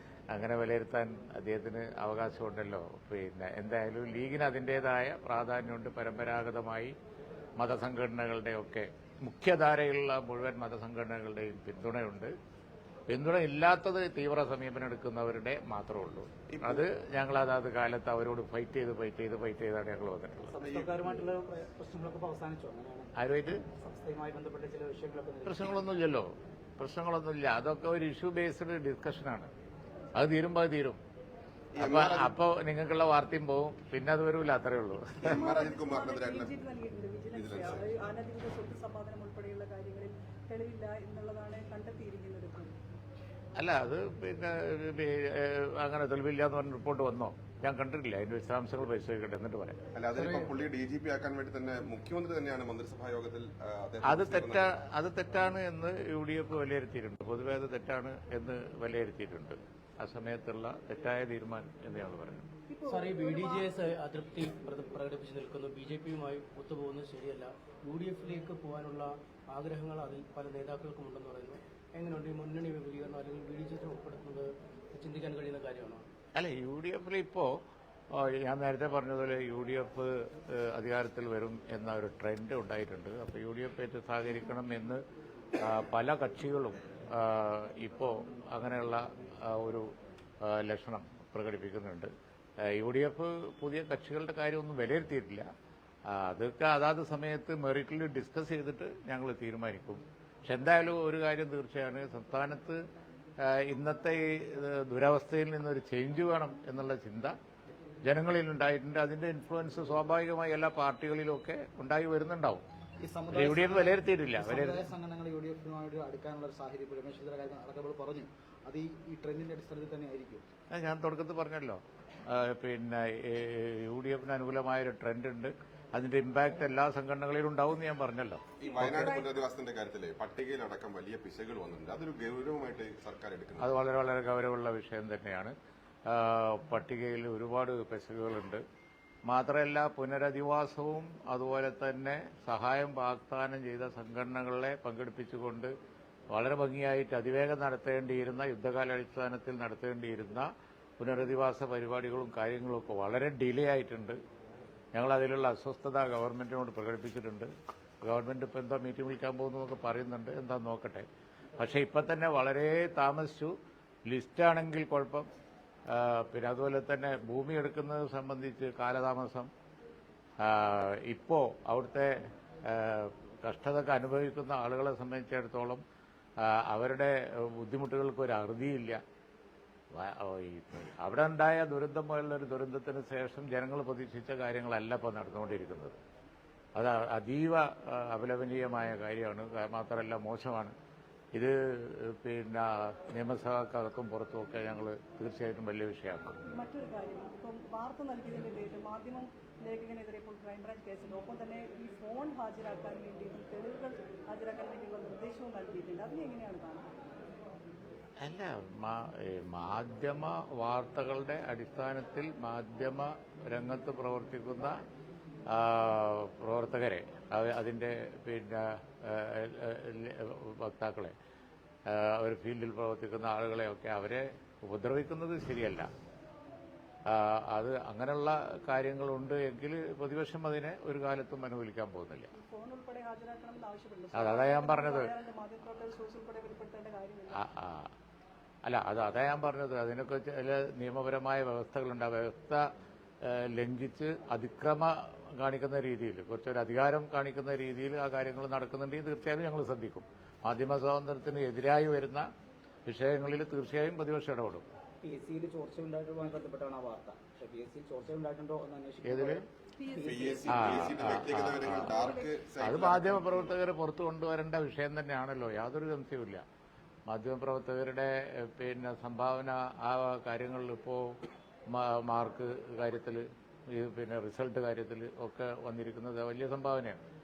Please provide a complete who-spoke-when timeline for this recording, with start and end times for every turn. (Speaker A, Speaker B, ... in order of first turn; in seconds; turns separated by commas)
Speaker A: 0.3-6.9, Speaker A: 7.6-12.3, Speaker A: 13.1-20.6, Speaker B: 16.5-16.8, Speaker C: 20.5-23.1, Speaker B: 20.6-21.3, Speaker A: 23.2-23.6, Speaker C: 23.7-26.0, Speaker A: 25.4-29.5, Speaker A: 30.1-31.0, Speaker B: 31.7-32.3, Speaker A: 31.8-35.3, Speaker B: 35.2-36.6, Speaker D: 35.3-42.7, Speaker B: 37.3-38.1, Speaker A: 43.5-49.8, Speaker B: 49.9-54.7, Speaker E: 50.1-50.5, Speaker A: 54.0-62.5, Speaker D: 62.7-63.8, Speaker E: 62.9-76.0, Speaker A: 76.3-77.5, Speaker A: 78.1-85.0, Speaker A: 85.6-89.9, Speaker A: 90.5-92.1, Speaker A: 92.6-95.4, Speaker A: 96.1-102.8, Speaker A: 103.4-107.3, Speaker A: 108.0-112.6, Speaker F: 113.0-120.4, Speaker A: 113.3-114.9, Speaker A: 120.7-129.0, Speaker B: 128.6-133.7, Speaker D: 128.6-129.4, Speaker A: 133.6-135.5, Speaker A: 136.1-138.6, Speaker A: 139.3-145.7, Speaker A: 146.3-150.5, Speaker A: 151.0-154.2, Speaker A: 154.9-157.5, Speaker A: 158.0-161.1, Speaker A: 161.6-163.5, Speaker A: 164.1-165.2, Speaker A: 165.9-169.5, Speaker A: 170.4-172.1, Speaker A: 172.6-175.8, Speaker A: 176.4-179.0, Speaker A: 179.9-186.0, Speaker A: 186.7-190.7, Speaker A: 191.3-196.3, Speaker D: 196.4-206.8, Speaker A: 208.2-214.7, Speaker A: 215.5-221.1, Speaker A: 221.9-225.9, Speaker A: 227.1-232.3, Speaker D: 232.3-237.4, Speaker A: 234.1-235.1, Speaker A: 237.3-237.9, Speaker A: 238.7-242.6, Speaker A: 243.2-252.2, Speaker A: 252.8-254.6, Speaker C: 255.0-260.2, Speaker A: 259.0-259.4, Speaker D: 259.8-262.3, Speaker B: 260.0-263.5, Speaker A: 260.5-262.0, Speaker A: 262.6-266.4, Speaker A: 267.1-271.2, Speaker A: 271.7-277.0